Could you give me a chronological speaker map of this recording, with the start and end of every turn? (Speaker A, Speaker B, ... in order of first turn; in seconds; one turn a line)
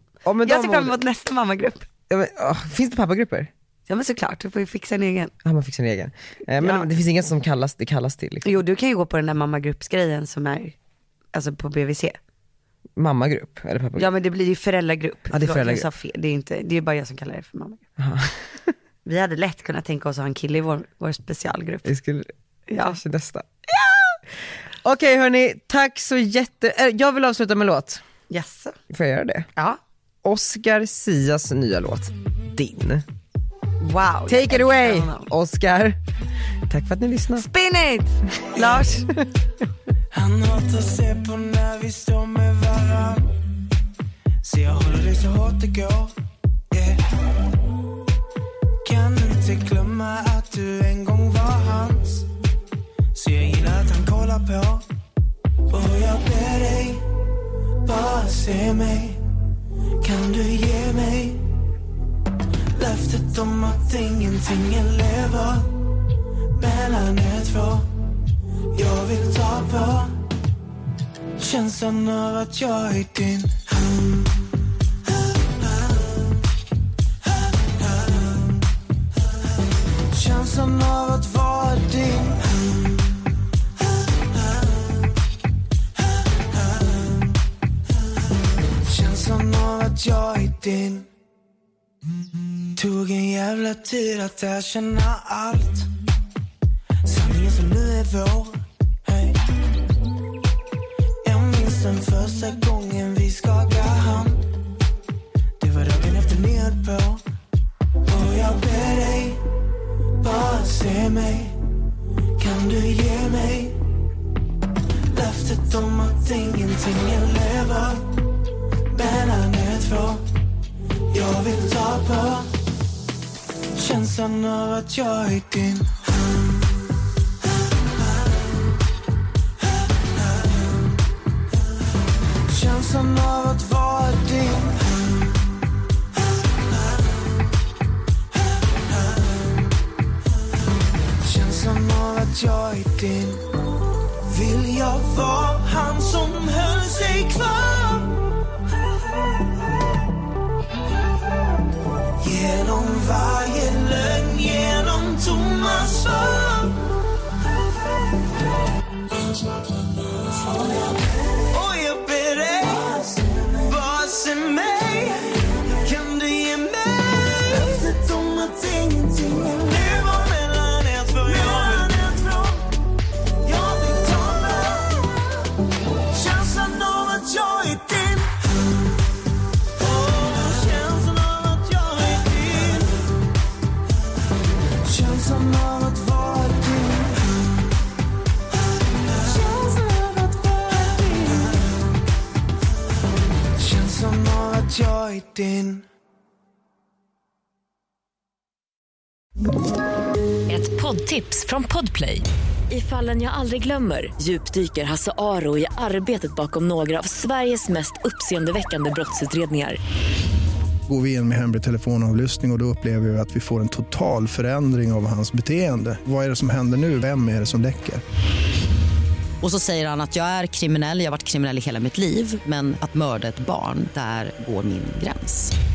Speaker A: 0.2-1.0
Speaker B: 0.4-1.9
Speaker A: 2.1-3.5
Speaker B: 3.9-5.3
Speaker A: 5.4-8.6
Speaker B: 6.6-6.9
Speaker B: 8.4-10.8
Speaker B: 11.3-12.2
Speaker A: 13.0-14.1
Speaker B: 13.9-17.8
Speaker A: 15.3-15.9
Speaker A: 18.0-18.7
Speaker B: 19.0-21.9
Speaker A: 21.8-23.4
Speaker B: 22.7-23.0
Speaker B: 23.7-24.2
Speaker A: 24.8-28.0
Speaker B: 28.3-28.8
Speaker A: 28.9-29.5
Speaker A: 30.2-33.0
Speaker B: 33.8-35.3
Speaker A: 34.3-36.0
Speaker A: 36.7-37.5
Speaker B: 37.3-39.1
Speaker C: 40.1-43.3
Speaker C: 44.4-46.1
Speaker C: 46.7-47.0
Speaker C: 48.8-52.3
Speaker C: 53.1-54.8
Speaker C: 55.7-57.0
Speaker C: 57.8-59.2
Speaker C: 60.0-61.5
Speaker C: 62.7-65.7
Speaker C: 66.5-67.9
Speaker C: 68.7-70.2
Speaker C: 71.4-74.3
Speaker C: 75.8-76.0
Speaker C: 77.9-78.4
Speaker C: 80.1-82.8
Speaker C: 86.5-87.3
Speaker C: 88.8-91.1
Speaker C: 92.7-95.9
Speaker C: 97.0-99.4
Speaker C: 101.2-104.4
Speaker C: 105.6-107.2
Speaker C: 108.1-109.4
Speaker C: 110.2-111.6
Speaker C: 112.4-113.8
Speaker C: 115.1-118.1
Speaker C: 118.9-120.2
Speaker C: 121.1-122.5
Speaker C: 123.8-126.0
Speaker C: 132.5-134.9
Speaker C: 138.9-139.5
Speaker C: 141.2-143.4
Speaker C: 144.2-148.2
Speaker C: 152.2-156.9
Speaker C: 160.2-172.8
Speaker C: 173.4-175.2
Speaker C: 176.1-178.4
Speaker C: 179.8-183.0
Speaker C: 184.8-187.3
Speaker C: 189.1-191.6
Speaker C: 193.6-195.9
Speaker D: 200.5-209.8
Speaker E: 210.9-218.0
Speaker F: 219.4-225.5